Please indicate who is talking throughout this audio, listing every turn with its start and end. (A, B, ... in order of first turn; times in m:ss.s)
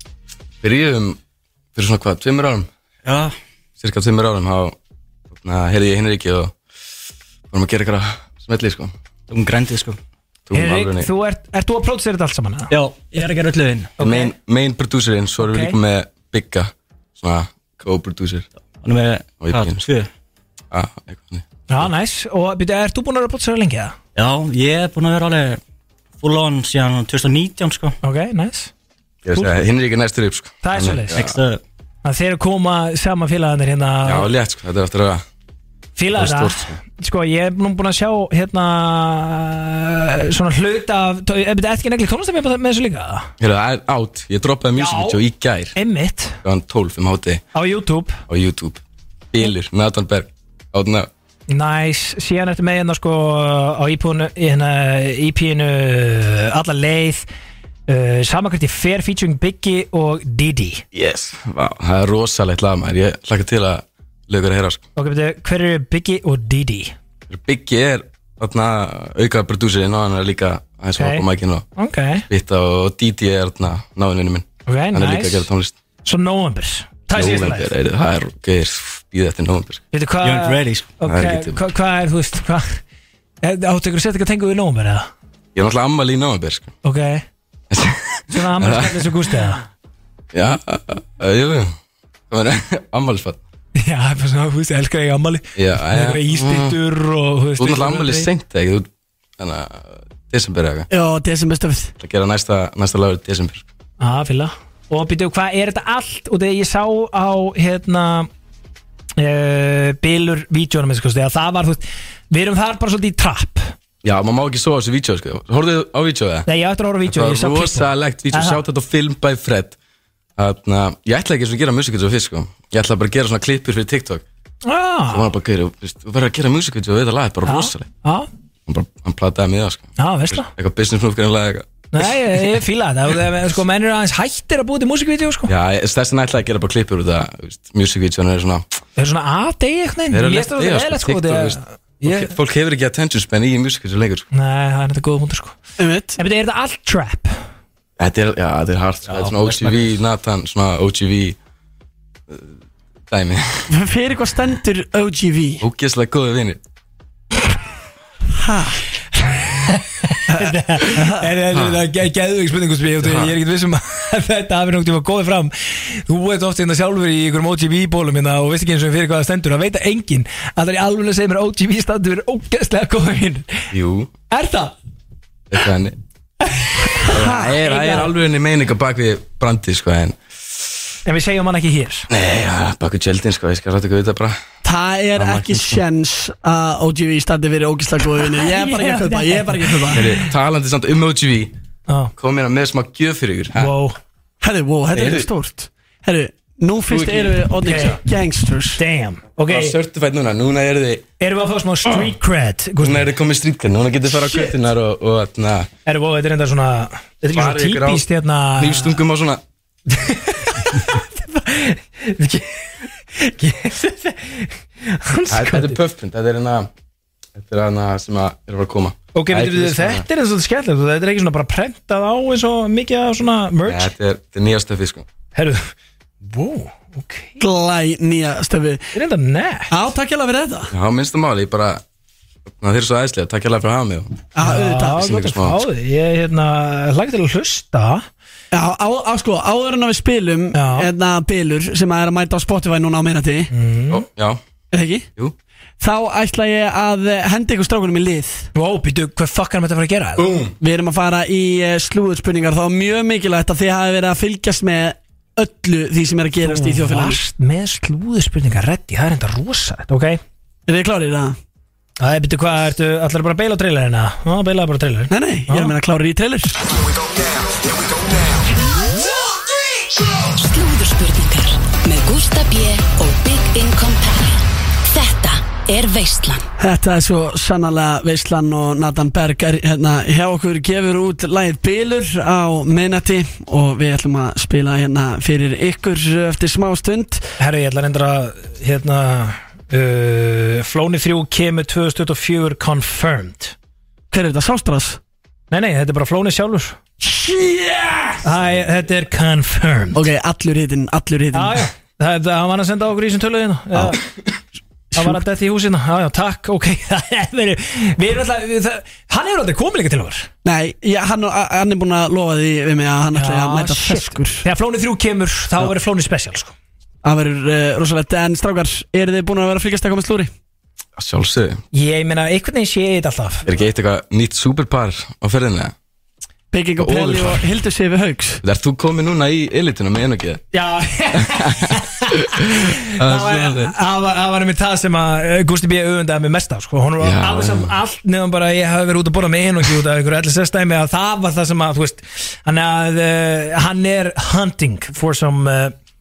0:00.6-0:01.2 A
0:01.7-0:02.7 A
0:03.0-0:03.3 B
0:03.8-0:04.7 A
0:05.4-0:06.5 A
0:07.5-0:08.9 A
0:09.3-0:10.0 B
0:10.5-0:11.1 A
0:10.5-0:12.7 C
0:12.7-0:14.0 B
0:14.0-0:14.3 C
0:14.0-0:18.4 A
0:15.4-0:15.8 C
0:18.8-0:20.1 B
0:19.4-0:19.8 A
0:20.7-0:21.9 A
0:21.7-0:24.0 C
0:24.1-0:25.6 B
0:26.2-0:27.9 B
0:28.0-0:28.7 C
0:29.2-0:31.3 A
0:30.6-0:31.2 C
0:31.1-0:31.6 B
0:32.0-0:34.3 C
0:34.0-0:35.2 A
0:36.0-0:43.3 C
0:36.1-0:36.8 A
0:43.4-0:45.7 A
0:44.8-0:45.2 C
0:45.7-0:46.4 C
0:46.4-0:47.4 A
0:47.5-0:48.2 C
0:48.3-0:48.8 A
0:49.3-0:51.1 A
0:51.5-0:57.2 C
0:57.9-1:00.8 C
1:00.9-1:04.8 A
1:05.0-1:06.9 C
1:07.3-1:11.6 A
1:11.0-1:11.2 C
1:11.8-1:12.2 C
1:12.3-1:15.7 A
1:14.7-1:15.5 C
1:16.0-1:17.7 C
1:17.1-1:19.8 A
1:19.9-1:22.8 C
1:20.2-1:21.0 B
1:21.0-1:21.6 A
1:23.4-1:25.1 C
1:25.5-1:26.7 A
1:26.8-1:27.2 C
1:27.7-1:29.4 A
1:28.3-1:29.6 C
1:30.3-1:31.7 A
1:32.3-1:33.4 A
1:33.8-1:38.3 C
1:35.6-1:36.8 A
1:37.6-1:38.9 A
1:39.4-1:40.9 A
1:40.9-1:41.9 D
1:42.0-1:43.6 A
1:44.0-1:48.3 C
1:49.2-1:53.7 C
1:54.0-1:56.5 A
1:56.4-1:58.6 C
1:57.0-1:59.8 A
2:00.4-2:04.2 A
2:04.6-2:05.3 C
2:05.1-2:07.9 A
2:07.4-2:08.3 C
2:08.7-2:11.7 A
2:10.0-2:10.5 C
2:11.9-2:15.5 C
2:15.5-2:18.6 A
2:19.0-2:22.4 C
2:20.1-2:24.2 A
2:24.3-2:25.6 C
2:25.8-2:26.2 D
2:26.2-2:27.3 C
2:28.0-2:31.4 A
2:29.1-2:29.9 B
2:33.1-2:33.7 A
2:33.7-2:35.6 D
2:35.6-2:36.6 A
2:38.3-2:38.8 D
2:39.2-2:53.6 C
2:40.3-2:41.2 D
2:41.5-2:41.8 A
2:43.0-2:43.3 A
2:53.7-2:54.1 A
2:54.3-2:54.7 C
2:55.5-2:56.0 A
2:56.4-2:58.1 C
2:57.0-2:57.6 D
2:57.1-3:00.2 A
3:01.0-3:02.1 C
3:02.1-3:04.4 A
3:04.6-3:10.1 D
3:05.2-3:05.8 A
3:08.2-3:10.2 C
3:09.9-3:11.5 A
3:12.2-3:13.7 A
3:13.6-3:14.0 C
3:14.4-3:18.8 D
3:14.9-3:15.3 A
3:16.9-3:18.0 A
3:17.6-3:18.0 C
3:18.8-3:19.8 C
3:19.5-3:21.0 A
3:21.2-3:23.1 C
3:21.8-3:22.1 A
3:22.8-3:25.7 A
3:24.1-3:24.5 C
3:25.8-3:29.0 C
3:27.3-3:29.4 A
3:29.9-3:35.8 C
3:35.3-3:36.7 A
3:37.4-3:40.0 A
3:39.1-3:43.9 C
3:43.6-3:45.1 A
3:45.3-3:45.7 C
3:46.2-3:47.4 C
3:47.4-3:48.8 D
3:48.9-3:49.7 C
3:49.7-3:50.7 D
3:50.7-3:51.8 A
3:52.6-3:54.3 A
3:54.3-3:55.3 D
3:54.4-3:58.0 C
3:54.8-3:55.6 A
3:58.5-4:03.5 D
4:00.5-4:00.9 C
4:03.5-4:04.0 C
4:03.9-4:04.4 A
4:04.7-4:05.0 D
4:05.8-4:08.5 D
4:08.5-4:10.2 C
4:10.2-4:10.5 A
4:10.6-4:17.2 D
4:16.4-4:20.2 C
4:20.7-4:21.4 D
4:22.0-4:25.7 C
4:25.1-4:26.6 D
4:30.2-4:36.5 E
4:36.6-4:47.3 D
4:47.4-4:53.5 C
4:54.1-4:55.0 D
4:55.5-4:56.8 C
4:57.0-4:58.2 D
4:58.2-5:00.0 C
4:59.9-5:01.7 D
5:01.3-5:04.0 C
5:04.9-5:05.2 D
5:04.9-5:10.3 C
5:10.4-5:14.4 D
5:13.1-5:16.5 C
5:17.0-5:20.3 D
5:21.0-5:21.6 A
5:21.7-5:23.5 C
5:23.4-5:25.7 A
5:26.5-5:28.4 D
5:26.8-5:27.4 A
5:28.4-5:30.4 A
5:30.5-5:45.7 C
5:31.1-5:33.7 A
5:37.0-5:37.7 A